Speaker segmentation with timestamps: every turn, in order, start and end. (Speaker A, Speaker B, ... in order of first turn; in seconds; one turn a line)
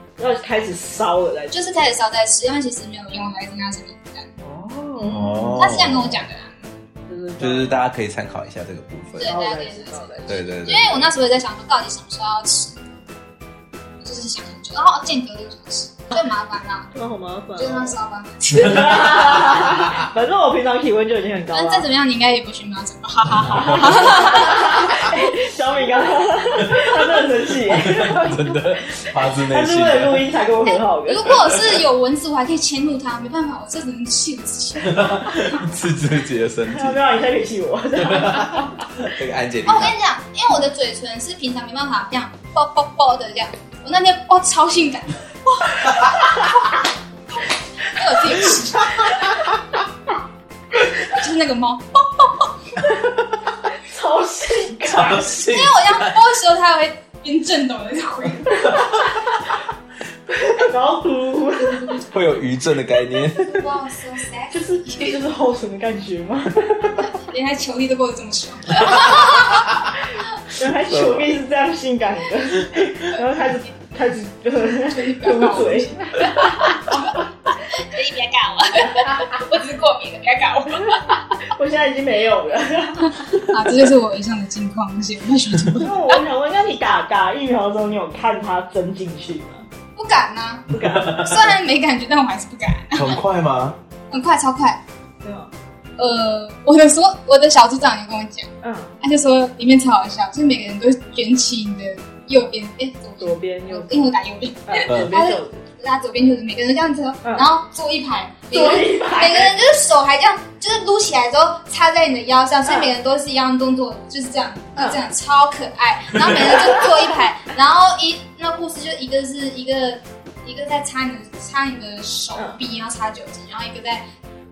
Speaker A: 0.2-1.6
Speaker B: 1.5-4.3
Speaker A: 4.4-5.6
Speaker B: 5.0-6.7
Speaker C: 5.1-6.2
Speaker A: 7.1-7.8
Speaker C: 7.4-9.4
Speaker B: 9.2-12.8
Speaker A: 9.2-10.5
Speaker C: 10.3-11.0
Speaker B: 14.0-16.9
Speaker A: 16.9-18.0
Speaker B: 17.6-19.6
Speaker A: 18.5-21.9
Speaker B: 21.5-25.0
Speaker A: 23.7-28.6
Speaker C: 27.7-30.3
Speaker A: 29.5-31.4
Speaker B: 30.6-35.6
Speaker C: 34.9-37.0
Speaker A: 36.7-38.8
Speaker C: 38.0-39.9
Speaker B: 39.7-45.9
Speaker C: 45.9-46.3
Speaker B: 47.8-49.4
Speaker B: 51.0-52.5
Speaker A: 53.8-55.3
Speaker C: 54.9-56.2
Speaker B: 55.5-58.8
Speaker A: 60.3-62.0
Speaker C: 62.1-63.6
Speaker B: 63.3-65.2
Speaker A: 64.5-67.1
Speaker B: 67.0-69.7
Speaker A: 70.5-77.1
Speaker C: 70.9-71.3
Speaker B: 74.9-81.2
Speaker A: 81.4-83.2
Speaker B: 83.0-86.2
Speaker A: 85.8-89.7
Speaker B: 90.0-93.2
Speaker A: 90.7-91.3
Speaker C: 90.7-91.5
Speaker C: 93.0-93.8
Speaker B: 94.1-94.8
Speaker A: 95.2-95.5
Speaker B: 96.0-98.5
Speaker A: 98.6-98.9
Speaker B: 99.0-124.1
Speaker A: 103.2-104.0
Speaker A: 104.7-105.7
Speaker C: 104.9-105.2
Speaker A: 108.5-109.5
Speaker A: 112.7-112.9
Speaker A: 114.8-115.0
Speaker A: 116.5-117.0